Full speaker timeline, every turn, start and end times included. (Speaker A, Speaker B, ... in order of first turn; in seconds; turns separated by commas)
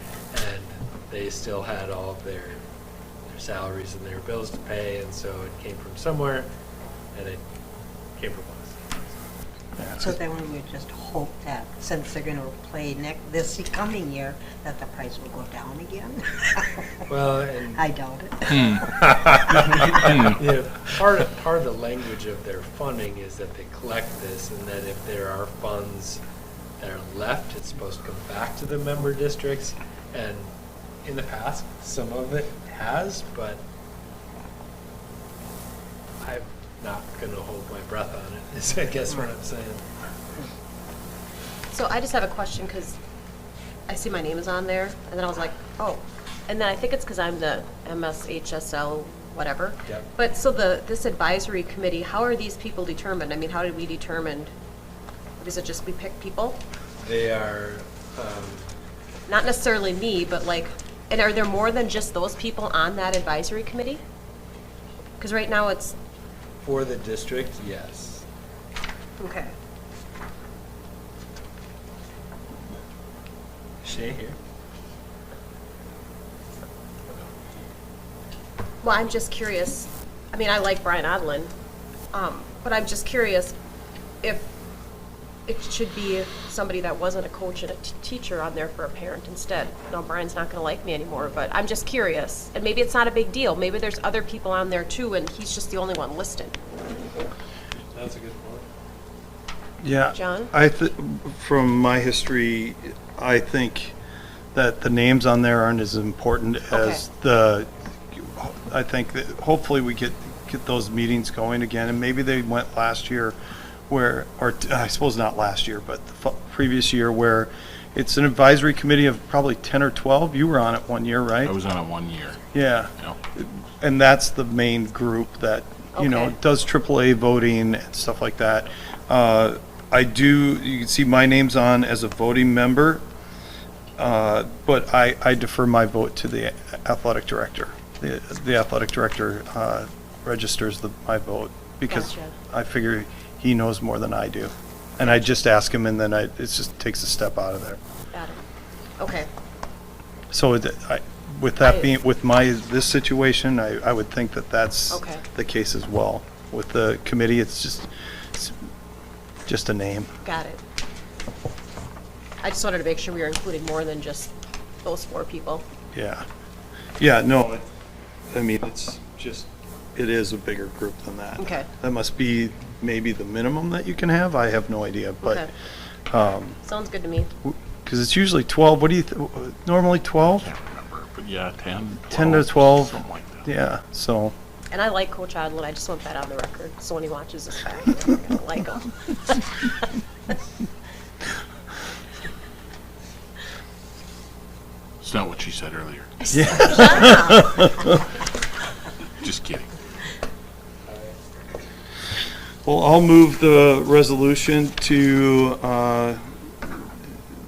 Speaker A: 0.3-2.7, Speaker A: 3.3-6.5, Speaker A: 7.1-7.4, Speaker A: 8.2-9.2, Speaker B: 9.8-10.1, Speaker C: 10.1-16.8, Speaker A: 17.1-17.8, Speaker C: 17.8-18.8, Speaker A: 18.5-26.2, Speaker A: 26.8-30.5, Speaker A: 31.0-33.6, Speaker A: 36.2-39.9, Speaker D: 41.7-43.0, Speaker D: 43.9-54.5, Speaker D: 55.4-56.6, Speaker A: 57.0-58.7, Speaker D: 59.3-64.0, Speaker D: 65.2-66.0, Speaker A: 66.6-68.2, Speaker A: 73.8-74.4, Speaker D: 78.8-81.5, Speaker D: 82.1-83.5, Speaker D: 84.2-84.5, Speaker D: 85.5-96.6, Speaker A: 91.2-91.4, Speaker A: 97.9-98.7, Speaker B: 99.8-104.0, Speaker D: 100.1-100.5, Speaker B: 104.5-113.4, Speaker D: 106.7-107.0, Speaker B: 113.9-121.6, Speaker E: 121.4-122.4, Speaker B: 122.5-133.0, Speaker D: 126.0-126.3, Speaker B: 134.0-147.8, Speaker D: 141.9-142.3, Speaker D: 148.1-148.4, Speaker D: 149.0-149.3, Speaker B: 150.3-158.6, Speaker D: 151.7-151.9, Speaker D: 154.9-155.2, Speaker B: 159.5-160.1, Speaker D: 160.2-160.6, Speaker D: 162.4-164.3, Speaker D: 164.8-165.6, Speaker B: 165.9-166.2, Speaker B: 167.0-167.7, Speaker B: 168.3-175.5, Speaker D: 171.4-171.7, Speaker D: 175.2-175.5, Speaker B: 176.1-176.6, Speaker D: 176.6-177.3, Speaker B: 177.4-180.5, Speaker E: 180.4-183.5, Speaker B: 182.1-184.3, Speaker D: 184.7-189.8, Speaker E: 195.0-196.1, Speaker D: 196.2-197.7, Speaker B: 196.3-197.9, Speaker E: 199.2-199.8, Speaker A: 200.9-201.2, Speaker B: 202.7-206.9